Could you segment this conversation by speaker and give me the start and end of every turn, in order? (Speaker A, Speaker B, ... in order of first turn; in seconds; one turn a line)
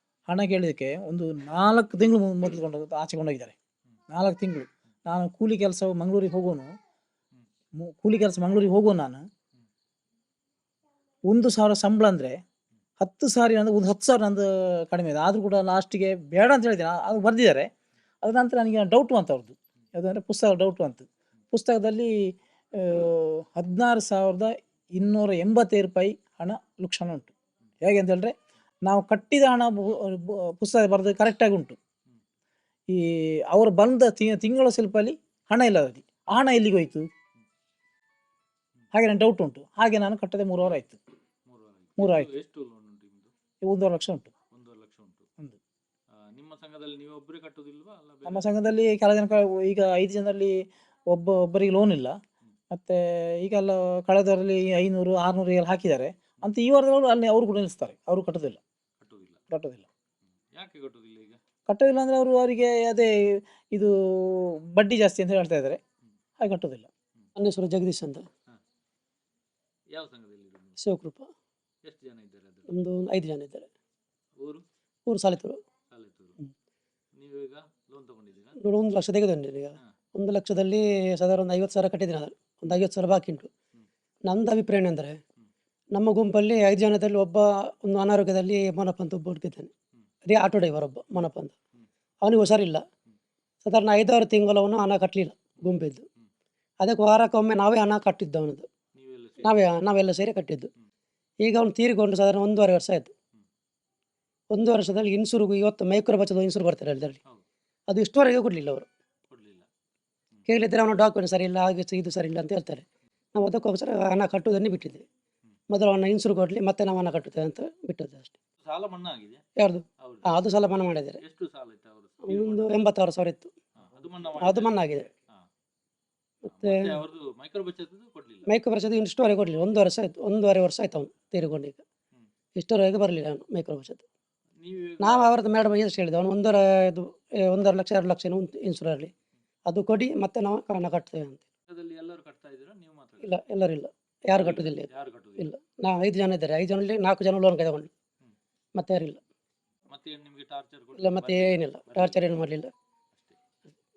Speaker A: 0.3-3.5
Speaker A: 4.1-6.7
Speaker A: 7.8-9.2
Speaker A: 11.3-12.4
Speaker A: 13.0-17.7
Speaker A: 18.2-22.1
Speaker A: 22.8-31.8
Speaker A: 32.9-37.1
Speaker A: 38.9-41.0
Speaker B: 41.5-43.3
Speaker A: 42.0-42.3
Speaker A: 43.6-44.3
Speaker B: 44.5-45.3
Speaker B: 46.1-48.5
Speaker A: 48.2-50.5
Speaker A: 51.1-52.2
Speaker A: 52.7-58.6
Speaker B: 59.0-59.4
Speaker A: 59.5-59.9
Speaker B: 60.5-61.4
Speaker A: 61.7-63.1
Speaker A: 63.7-65.8
Speaker A: 66.4-66.9
Speaker C: 67.4-68.3
Speaker B: 69.9-70.8
Speaker C: 70.8-71.3
Speaker B: 71.8-72.7
Speaker C: 72.7-73.7
Speaker C: 75.0-75.6
Speaker B: 75.9-76.4
Speaker B: 77.1-78.6
Speaker C: 78.6-83.5
Speaker C: 84.2-85.2
Speaker C: 85.9-89.7
Speaker C: 90.3-91.5
Speaker C: 92.2-92.8
Speaker C: 93.6-96.0
Speaker C: 96.8-98.7
Speaker B: 98.9-99.6
Speaker C: 99.4-100.7
Speaker C: 101.4-103.1
Speaker C: 104.5-107.2
Speaker C: 107.9-108.9
Speaker B: 109.3-109.7
Speaker C: 110.5-112.8
Speaker C: 113.3-115.0
Speaker C: 115.7-118.3
Speaker B: 118.6-119.4
Speaker C: 119.6-121.2
Speaker B: 120.0-120.4
Speaker B: 121.2-122.7
Speaker C: 122.2-123.5
Speaker B: 123.7-124.8
Speaker C: 124.4-125.1
Speaker C: 126.5-127.0
Speaker B: 126.5-128.5
Speaker C: 128.5-131.8
Speaker C: 132.6-134.0
Speaker B: 134.6-135.3
Speaker C: 135.0-139.1
Speaker C: 139.7-141.4
Speaker B: 141.7-143.4
Speaker C: 143.2-147.9
Speaker B: 144.3-145.5
Speaker C: 148.7-149.2
Speaker B: 149.9-152.4
Speaker C: 151.0-152.7